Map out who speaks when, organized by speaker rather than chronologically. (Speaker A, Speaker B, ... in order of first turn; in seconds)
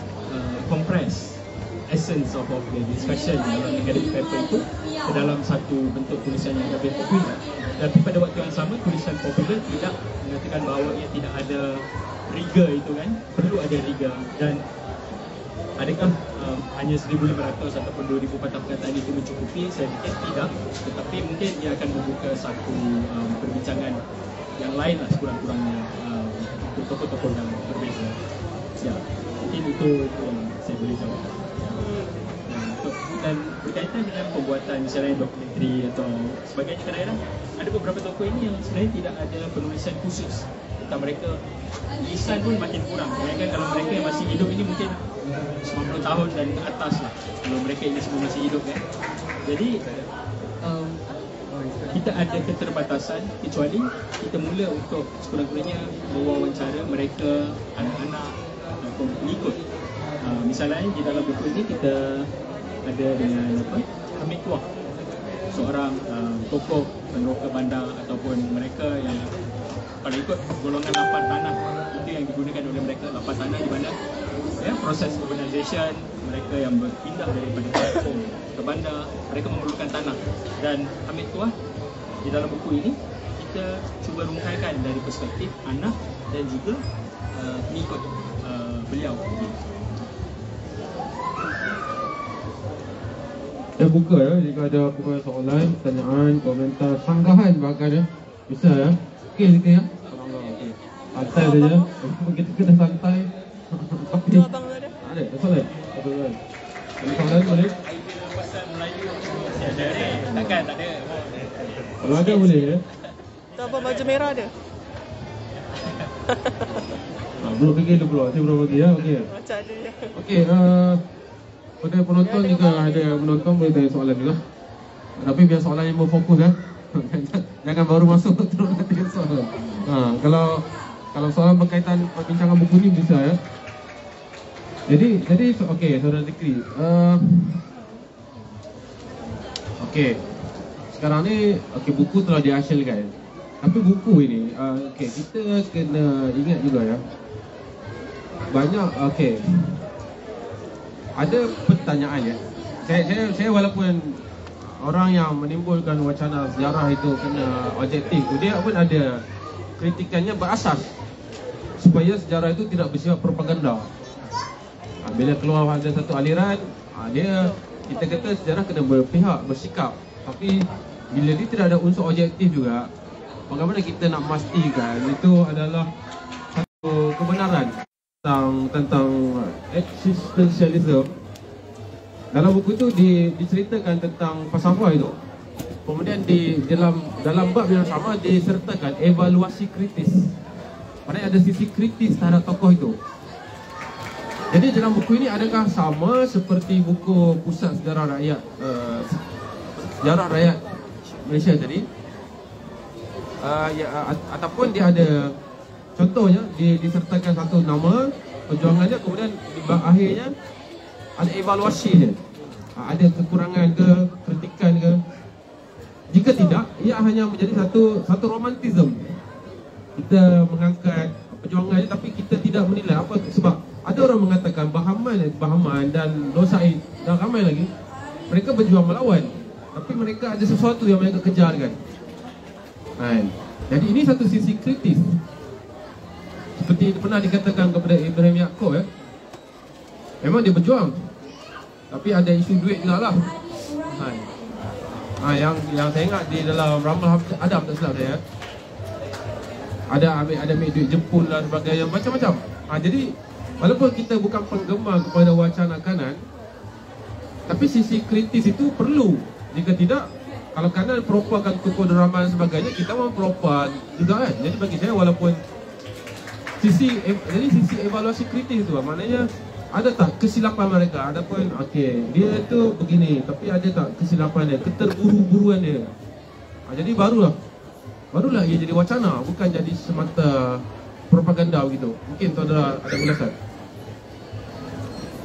Speaker A: 0.3-14.6, 15.8-24.0, 24.6-28.1, 28.8-31.8, 32.5-41.3, 42.0-45.0, 45.6-48.8, 49.4-49.8, 51.9-59.6, 60.2-62.3, 62.8-64.7, 65.5-69.4, 70.0-73.9, 74.6-81.5, 82.2-89.5, 107.6-112.6
Speaker B: 31.8-32.3, 101.2-101.9, 104.3-105.0, 113.6-114.5, 116.3-116.8, 119.3-120.1, 122.2-123.5, 167.4-168.3
Speaker C: 93.8-104.5, 105.0-106.4, 107.0-107.7, 110.2-110.5, 112.0-112.8, 117.4-119.3, 120.1-121.0, 121.8-124.4, 125.2-130.6, 131.1-133.4, 134.9-137.6, 139.8-140.2, 141.0-143.1, 143.6-147.0, 148.5-149.7, 151.2-154.2, 154.8-159.2, 159.8-160.9, 161.8-163.9, 165.0-172.9, 173.5-175.9, 176.5-177.7, 178.2-181.1, 182.3-185.2, 185.8-190.3, 191.1-192.9, 194.5-199.2, 199.8-200.6, 201.2-201.8, 203.4-205.3, 205.9-210.3, 211.2-212.2, 212.8-215.0, 216.1-219.1, 220.0-227.7, 228.3-231.8, 233.0-235.2, 236.6-238.8, 240.2-240.9, 241.9-243.3, 243.9-244.3, 245.2-248.2, 249.9-253.1, 253.6-256.2, 257.5-265.4, 266.6-275.9, 276.7-277.3, 278.1-283.3